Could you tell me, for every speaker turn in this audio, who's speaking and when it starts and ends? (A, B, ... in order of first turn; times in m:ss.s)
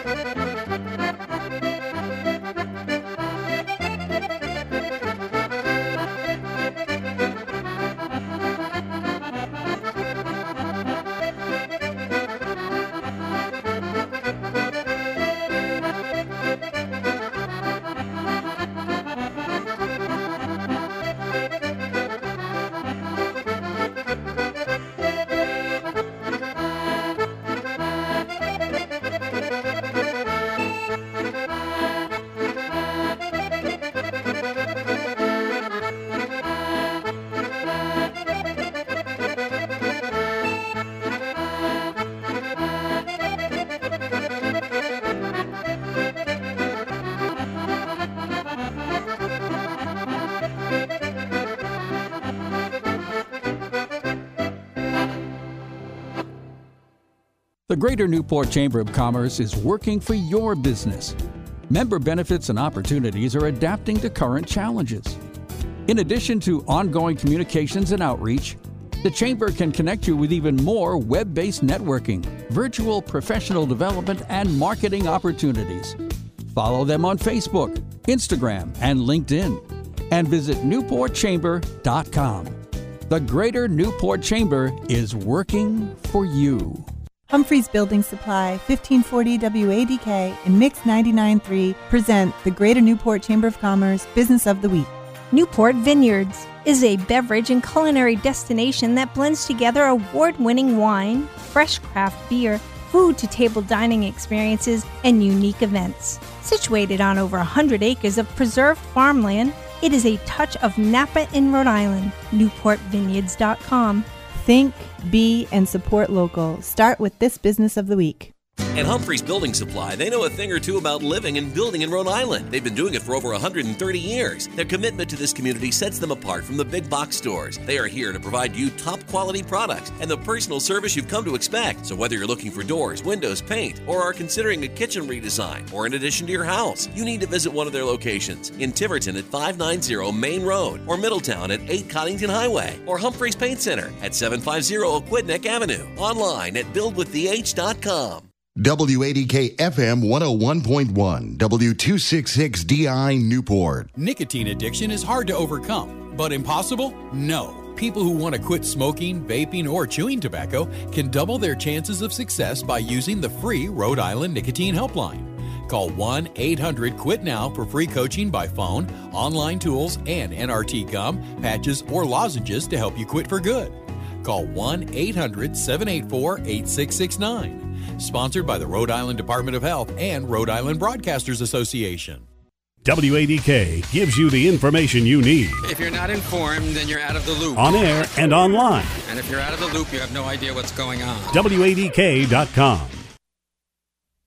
0:57.7-1:01.2 A
1:01.7-1:05.2 A
1:05.9-1:16.0 A
1:16.5-1:22.6 A
1:23.1-1:26.9 A
1:27.3-1:34.9 B
1:35.3-1:54.1 C
1:54.3-1:58.3 B
1:58.7-2:28.3 D
2:28.6-2:33.9 E
2:34.0-3:02.3 F
3:02.8-3:05.7 G
3:05.6-3:07.6 H
3:07.6-3:09.0 G
3:09.0-3:11.3 H
3:11.3-3:13.1 G